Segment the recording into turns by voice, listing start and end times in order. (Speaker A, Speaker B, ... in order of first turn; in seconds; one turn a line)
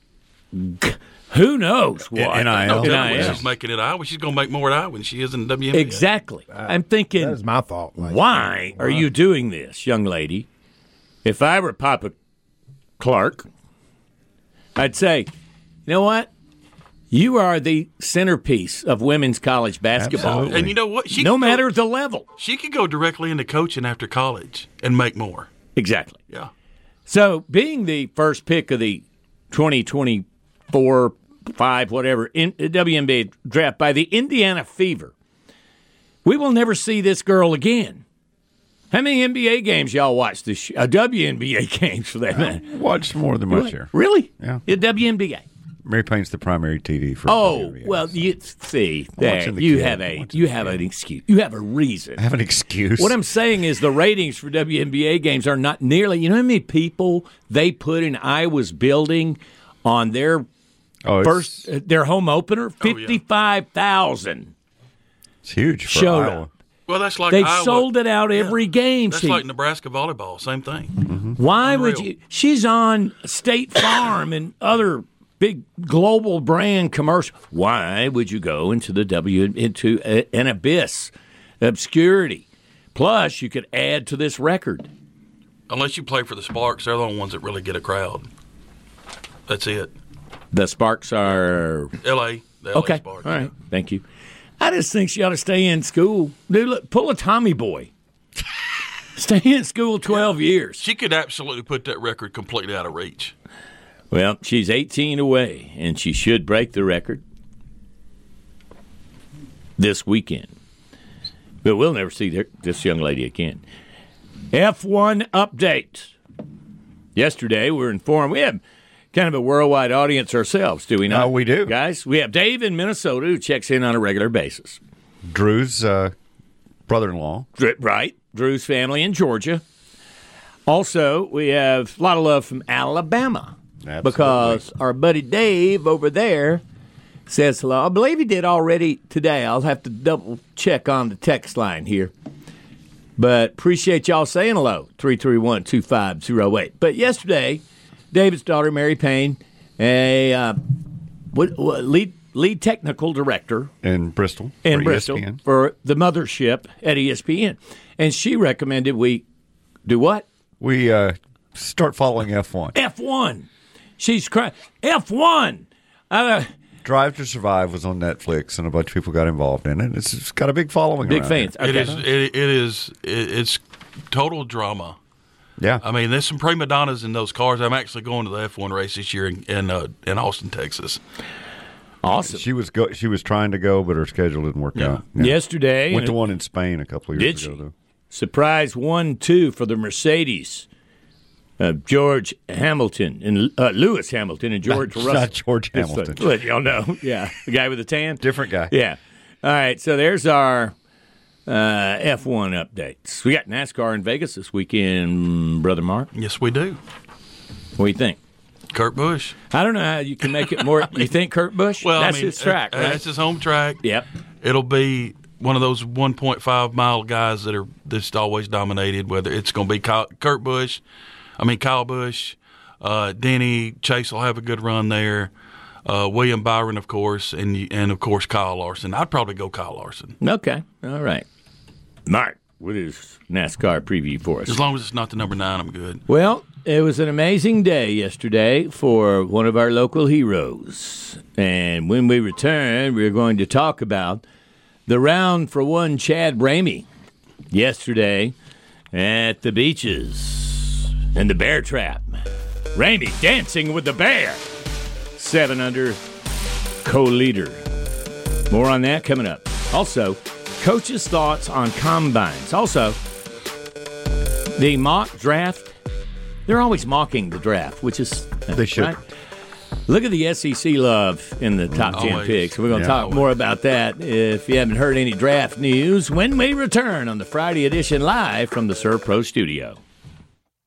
Speaker A: 0.5-3.4
Speaker B: 2.1-3.5
Speaker C: 2.7-6.0
Speaker A: 5.7-7.4
Speaker D: 6.5-9.1
Speaker A: 8.0-10.5
Speaker A: 11.2-12.2
Speaker A: 13.0-13.5
Speaker A: 14.8-15.3
Speaker A: 15.8-16.3
Speaker A: 17.1-20.6
Speaker B: 20.0-20.8
Speaker C: 20.1-21.6
Speaker A: 21.1-22.2
Speaker C: 22.4-25.5
Speaker A: 25.8-26.2
Speaker A: 27.1-35.1
Speaker A: 36.2-38.0
Speaker A: 38.9-42.7
Speaker B: 42.3-44.6
Speaker A: 43.5-45.4
Speaker B: 45.8-48.2
Speaker A: 47.3-52.2
Speaker B: 49.2-50.8
Speaker B: 52.2-53.2
Speaker A: 53.0-60.5
Speaker B: 61.0-61.6
Speaker A: 61.2-64.5
Speaker C: 62.8-63.2
Speaker B: 65.4-66.5
Speaker A: 65.9-66.4
Speaker C: 66.9-72.1
Speaker A: 67.3-69.4
Speaker B: 71.0-71.3
Speaker A: 71.4-84.9
Speaker C: 85.7-88.3
Speaker C: 89.5-89.9
Speaker A: 90.5-91.9
Speaker C: 92.0-93.5
Speaker A: 92.7-94.0
Speaker A: 94.6-97.9
Speaker A: 99.2-100.8
Speaker C: 100.8-103.3
Speaker A: 104.1-107.2
Speaker A: 109.8-110.5
Speaker A: 111.6-113.6
Speaker A: 114.5-116.1
Speaker A: 117.2-118.6
Speaker A: 119.1-124.8
Speaker B: 121.1-121.7
Speaker B: 125.2-126.1
Speaker B: 126.9-127.5
Speaker A: 127.6-129.6
Speaker A: 130.7-136.6
Speaker B: 133.8-134.6
Speaker A: 137.3-142.1
Speaker A: 143.2-150.6
Speaker A: 151.3-153.7
Speaker B: 153.8-155.4
Speaker A: 154.6-159.2
Speaker A: 159.8-160.2
Speaker B: 160.6-162.8
Speaker A: 162.7-163.5
Speaker A: 164.0-166.5
Speaker B: 166.8-172.0
Speaker A: 171.1-172.0
Speaker C: 171.6-175.0
Speaker B: 175.6-175.8
Speaker C: 175.8-181.0
Speaker A: 182.0-182.4
Speaker B: 182.2-187.7
Speaker C: 184.7-185.0
Speaker A: 185.2-186.2
Speaker A: 187.1-187.6
Speaker A: 188.1-190.7
Speaker A: 191.6-200.7
Speaker B: 194.6-196.4
Speaker B: 198.2-198.7
Speaker A: 201.4-206.1
Speaker C: 206.1-206.8
Speaker A: 207.8-208.2
Speaker C: 208.7-209.3
Speaker A: 209.5-213.0
Speaker C: 211.8-213.8
Speaker C: 214.4-220.8
Speaker C: 221.4-225.3
Speaker C: 225.8-230.2
Speaker A: 230.2-231.2
Speaker A: 232.1-234.6
Speaker C: 234.5-236.0
Speaker A: 236.1-244.2
Speaker A: 244.9-246.9
Speaker A: 247.5-248.3
Speaker A: 248.9-252.2
Speaker A: 252.7-254.4
Speaker A: 255.2-256.0
Speaker A: 256.8-257.6
Speaker A: 258.5-263.0
Speaker A: 264.5-265.7
Speaker A: 266.5-269.0
Speaker B: 268.5-269.0
Speaker A: 269.9-279.8
Speaker B: 271.7-272.2
Speaker C: 271.9-273.3
Speaker B: 272.7-273.0